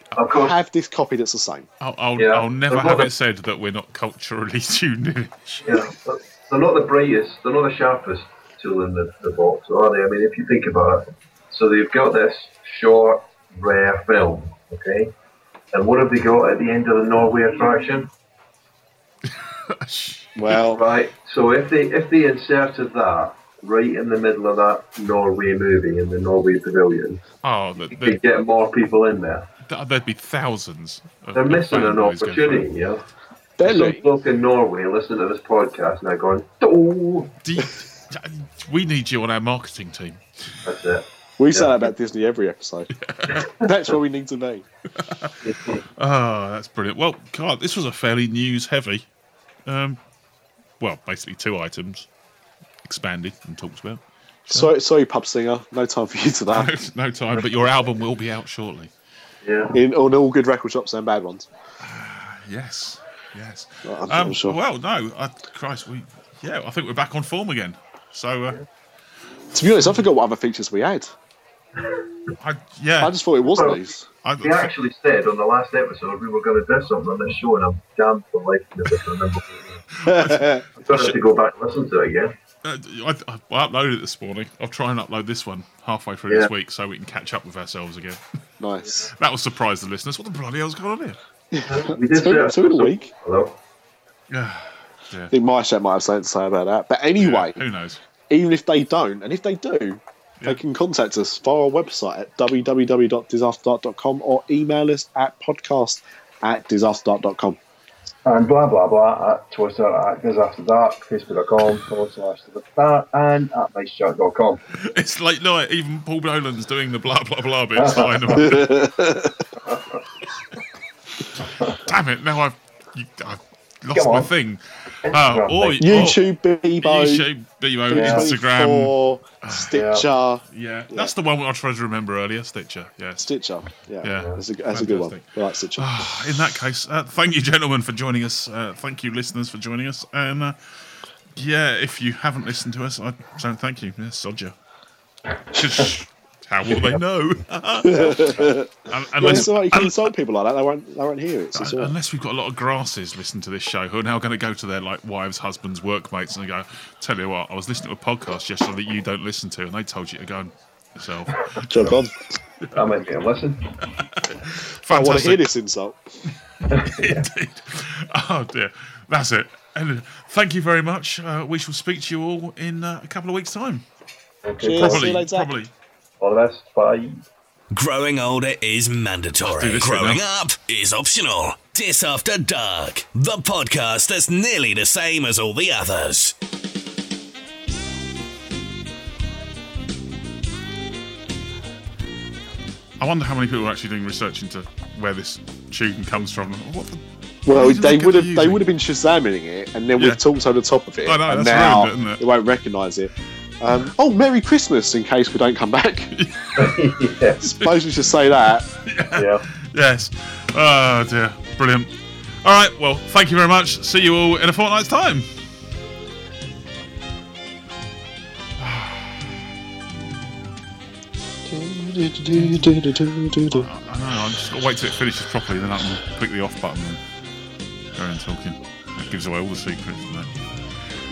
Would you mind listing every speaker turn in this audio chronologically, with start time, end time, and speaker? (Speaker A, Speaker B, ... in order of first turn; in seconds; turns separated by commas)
Speaker A: 0.1-0.6, Speaker B: 0.3-1.7, Speaker C: 1.8-5.9, Speaker A: 2.1-3.1, Speaker A: 5.6-15.1, Speaker A: 15.7-18.1, Speaker C: 19.2-20.6, Speaker B: 20.3-20.9, Speaker A: 20.7-27.2, Speaker C: 27.4-28.2, Speaker A: 27.9-29.5, Speaker C: 29.6-32.7, Speaker A: 31.3-33.0, Speaker B: 33.6-34.1, Speaker A: 33.6-37.4, Speaker C: 37.4-40.2, Speaker A: 40.6-41.7, Speaker B: 41.4-44.6, Speaker C: 42.9-43.5, Speaker C: 45.0-45.3, Speaker A: 45.4-45.8, Speaker C: 46.0-49.1, Speaker C: 49.6-50.0, Speaker C: 50.8-52.1, Speaker C: 52.8-54.7, Speaker B: 54.5-56.7, Speaker C: 56.5-58.9, Speaker A: 59.4-59.7, Speaker B: 59.7-61.5, Speaker C: 61.8-68.6, Speaker B: 63.8-64.6, Speaker B: 69.5-71.1, Speaker C: 72.4-73.2, Speaker B: 73.0-74.1, Speaker A: 73.4-79.8, Speaker C: 74.2-74.7, Speaker C: 80.0-81.1, Speaker B: 80.0-80.6, Speaker A: 80.8-82.3, Speaker C: 82.6-88.2, Speaker B: 88.6-89.1, Speaker C: 89.1-91.2, Speaker B: 91.5-93.1, Speaker A: 91.7-93.6, Speaker C: 94.3-95.3, Speaker B: 95.3-97.6, Speaker C: 97.2-98.0, Speaker B: 98.3-107.6, Speaker A: 108.2-114.6, Speaker C: 114.7-118.8, Speaker A: 117.7-118.6, Speaker B: 118.4-119.4, Speaker A: 119.6-120.0, Speaker A: 121.4-121.8, Speaker C: 121.8-126.2, Speaker A: 123.9-124.3, Speaker A: 125.0-126.2, Speaker B: 125.8-127.3, Speaker C: 126.8-129.7, Speaker B: 127.9-131.1, Speaker A: 127.9-128.3, Speaker A: 129.7-130.0, Speaker C: 130.5-133.3, Speaker B: 133.2-136.2, Speaker C: 134.0-140.8, Speaker A: 134.1-134.4, Speaker C: 141.3-144.6, Speaker C: 145.4-150.1, Speaker A: 146.7-147.0, Speaker B: 147.8-151.9, Speaker C: 151.5-161.9, Speaker B: 161.6-162.1, Speaker A: 162.7-163.8, Speaker C: 163.9-165.5, Speaker B: 164.9-166.0, Speaker A: 166.7-167.2, Speaker C: 166.7-173.8, Speaker A: 174.4-175.1, Speaker B: 174.6-175.5, Speaker C: 174.8-175.7, Speaker A: 176.2-177.2, Speaker D: 177.7-186.3, Speaker C: 179.5-180.2, Speaker C: 193.0-198.7, Speaker B: 197.4-206.1, Speaker C: 200.0-200.2, Speaker C: 201.0-202.2, Speaker C: 206.1-207.8, Speaker A: 206.6-207.5, Speaker B: 207.4-208.7, Speaker C: 208.8-215.3, Speaker A: 209.1-209.4, Speaker C: 218.6-219.2, Speaker B: 221.5-223.7, Speaker C: 222.3-222.8, Speaker C: 223.5-227.0, Speaker C: 227.9-230.3